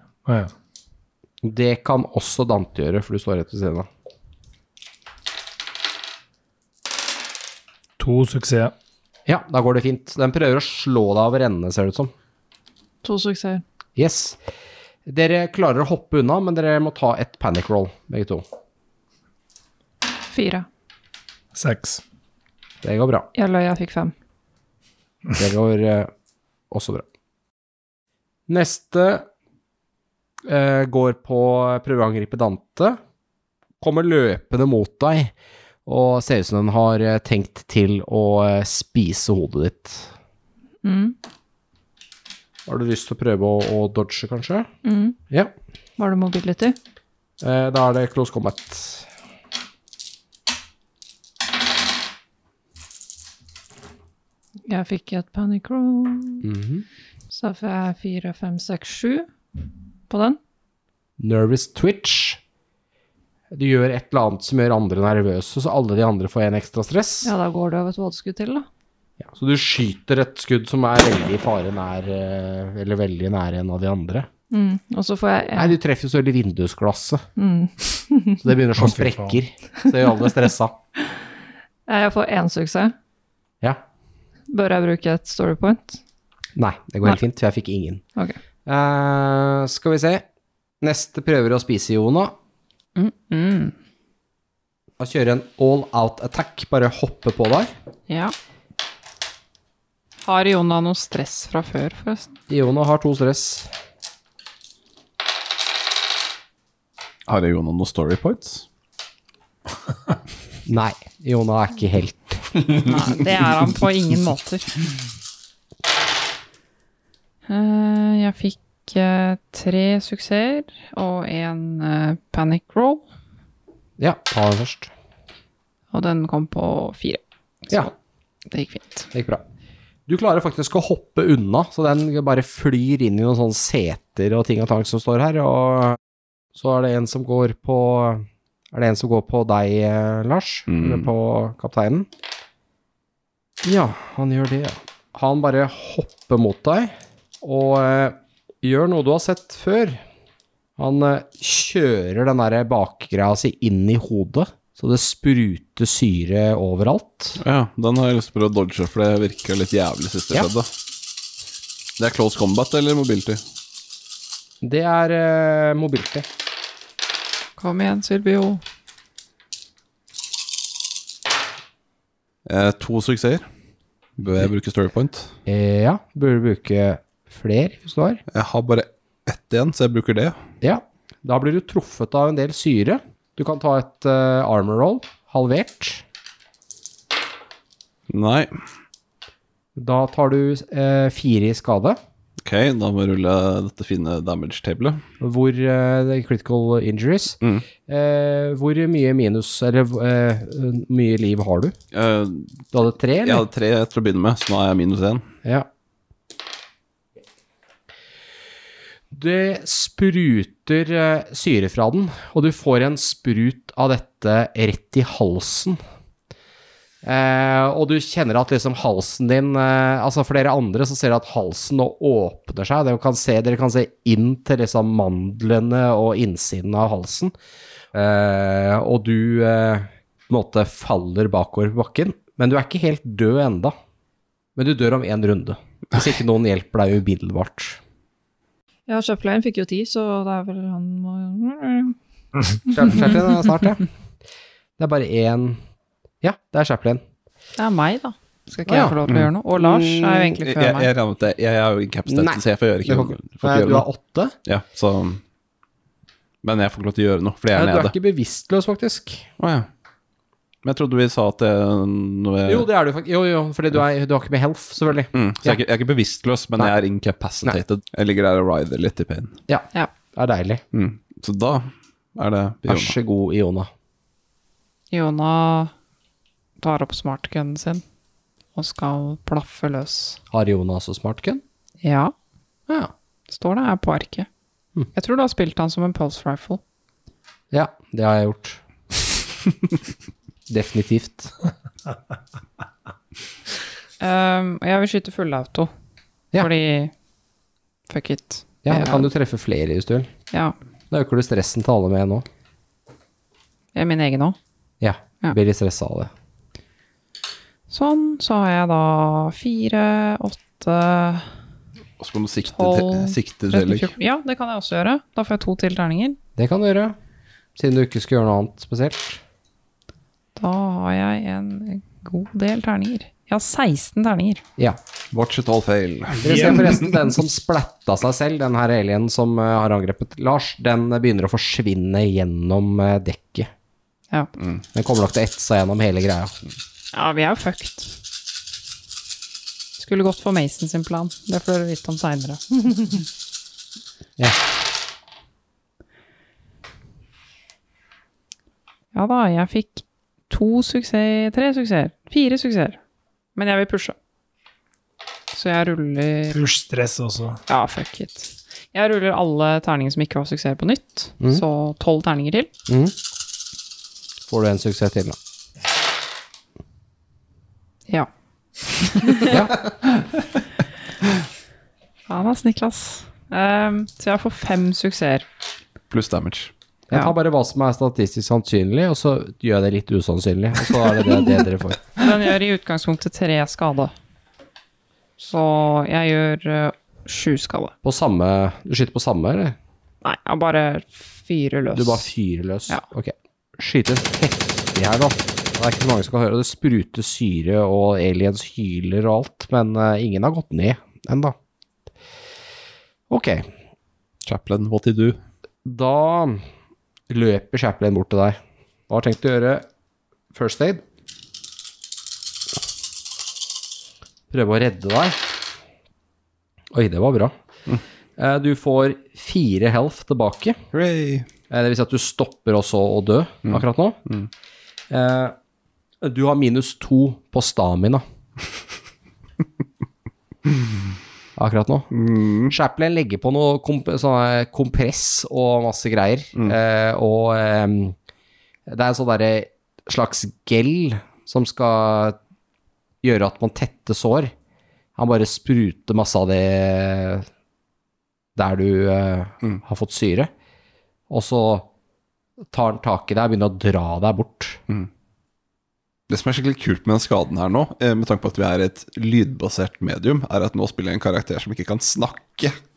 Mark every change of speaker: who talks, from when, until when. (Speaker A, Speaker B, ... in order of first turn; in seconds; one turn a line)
Speaker A: 0.2-0.5
Speaker B: 1.4-3.9
Speaker A: 8.0-8.7
Speaker B: 9.2-12.1
Speaker C: 13.0-13.6
Speaker B: 13.9-14.4
Speaker B: 15.1-18.4
Speaker C: 20.3-20.6
Speaker A: 21.5-22.0
Speaker B: 22.8-23.3
Speaker C: 23.3-24.1
Speaker B: 25.4-26.1
Speaker B: 26.7-27.0
Speaker B: 28.5-29.2
Speaker B: 30.5-33.0
Speaker B: 33.8-35.3
Speaker B: 35.9-40.1
Speaker C: 40.8-41.1
Speaker B: 42.7-44.7
Speaker C: 44.8-45.2
Speaker C: 46.0-46.8
Speaker B: 47.4-49.1
Speaker C: 54.7-56.5
Speaker B: 56.4-56.8
Speaker C: 57.3-59.3
Speaker C: 60.1-60.4
Speaker B: 61.2-62.4
Speaker B: 63.5-67.3
Speaker C: 67.2-68.7
Speaker B: 69.2-74.3
Speaker C: 74.5-75.8
Speaker B: 75.5-77.2
Speaker C: 77.4-78.4
Speaker B: 78.4-80.8
Speaker A: 78.8-79.4
Speaker C: 81.9-82.9
Speaker C: 84.5-86.0
Speaker B: 86.5-88.0
Speaker B: 88.7-90.2
Speaker B: 90.8-92.3
Speaker D: 93.0-93.7
Speaker B: 95.0-97.7
Speaker D: 98.1-98.3
Speaker D: 100.2-102.3
Speaker B: 102.5-103.7
Speaker E: 107.3-108.7
Speaker B: 110.7-112.7
Speaker D: 112.8-114.8
Speaker D: 117.5-123.0
Speaker B: 124.0-124.9
Speaker D: 125.9-127.8
Speaker D: 128.5-129.1
Speaker B: 129.1-129.4
Speaker B: 130.1-136.0
Speaker B: 136.5-142.1
Speaker E: 140.7-141.1
Speaker B: 143.6-150.0
Speaker B: 150.8-157.4
Speaker E: 157.4-160.7
Speaker E: 162.0-163.4
Speaker B: 164.6-166.3
Speaker D: 167.6-168.6
Speaker E: 172.4-173.4
Speaker E: 174.2-175.3
Speaker B: 175.4-178.2
Speaker E: 178.3-180.4
Speaker B: 180.6-186.0
Speaker E: 188.1-188.6
Speaker B: 189.8-192.0
Speaker E: 192.4-195.0
Speaker B: 195.2-201.8
Speaker E: 201.9-202.6
Speaker B: 202.7-203.4
Speaker E: 203.2-205.3
Speaker B: 209.1-215.8
Speaker B: 217.0-227.3
Speaker B: 227.9-233.7
Speaker B: 234.6-237.8
Speaker C: 238.9-241.9
Speaker B: 242.7-243.9
Speaker B: 244.8-245.6
Speaker B: 246.2-247.0
Speaker D: 247.6-250.9
Speaker B: 248.7-249.0
Speaker E: 249.1-249.3
Speaker B: 249.6-250.4
Speaker E: 250.4-253.8
Speaker B: 252.1-254.3
Speaker E: 254.4-255.2
Speaker E: 256.4-257.9
Speaker B: 257.5-259.2
Speaker E: 259.4-259.7
Speaker E: 260.6-262.7
Speaker B: 262.5-265.6
Speaker E: 265.1-269.4
Speaker B: 269.5-270.6
Speaker E: 270.7-273.0
Speaker B: 272.7-273.7
Speaker D: 274.9-275.7
Speaker D: 276.6-277.8
Speaker D: 278.5-280.2
Speaker B: 280.3-281.4
Speaker D: 281.8-282.1
Speaker D: 283.3-284.3
Speaker D: 284.9-286.6
Speaker B: 287.5-288.6
Speaker B: 290.5-291.3
Speaker D: 294.0-295.7
Speaker D: 296.4-296.9
Speaker D: 297.9-299.1
Speaker B: 298.6-300.1
Speaker B: 300.9-302.2
Speaker D: 303.7-304.4
Speaker B: 304.8-306.1
Speaker D: 307.7-311.3
Speaker E: 312.0-313.9
Speaker D: 312.5-316.2
Speaker B: 316.4-316.9
Speaker B: 317.6-319.2
Speaker D: 320.4-324.4
Speaker E: 325.1-326.8
Speaker B: 326.2-333.5
Speaker A: 326.2-326.8
Speaker B: 334.7-336.3
Speaker D: 336.9-337.9
Speaker D: 339.8-343.0
Speaker D: 348.9-352.8
Speaker D: 353.3-353.9
Speaker D: 355.3-356.4
Speaker A: 356.3-357.4
Speaker D: 357.5-362.5
Speaker B: 362.7-362.9
Speaker B: 364.3-365.1
Speaker D: 368.6-369.4
Speaker B: 369.3-369.6
Speaker D: 372.1-375.2
Speaker E: 375.9-376.5
Speaker B: 376.9-381.9
Speaker D: 382.0-383.9
Speaker D: 385.2-387.7
Speaker B: 387.8-389.6
Speaker D: 390.0-392.1
Speaker B: 391.7-401.3
Speaker B: 403.1-403.5
Speaker E: 404.2-405.2
Speaker B: 405.6-406.4
Speaker B: 407.1-409.6
Speaker B: 410.3-410.8
Speaker B: 414.3-415.2
Speaker B: 416.7-417.3
Speaker B: 418.2-420.6
Speaker E: 420.7-421.2
Speaker B: 421.5-424.0
Speaker E: 423.4-424.3
Speaker B: 424.9-425.3
Speaker B: 426.0-428.0
Speaker B: 431.4-431.9
Speaker E: 431.9-432.5
Speaker B: 432.5-437.9
Speaker B: 438.7-442.2
Speaker B: 443.0-444.3
Speaker B: 444.9-447.3
Speaker B: 448.3-450.3
Speaker B: 451.1-451.7
Speaker B: 452.5-454.6
Speaker E: 456.1-462.6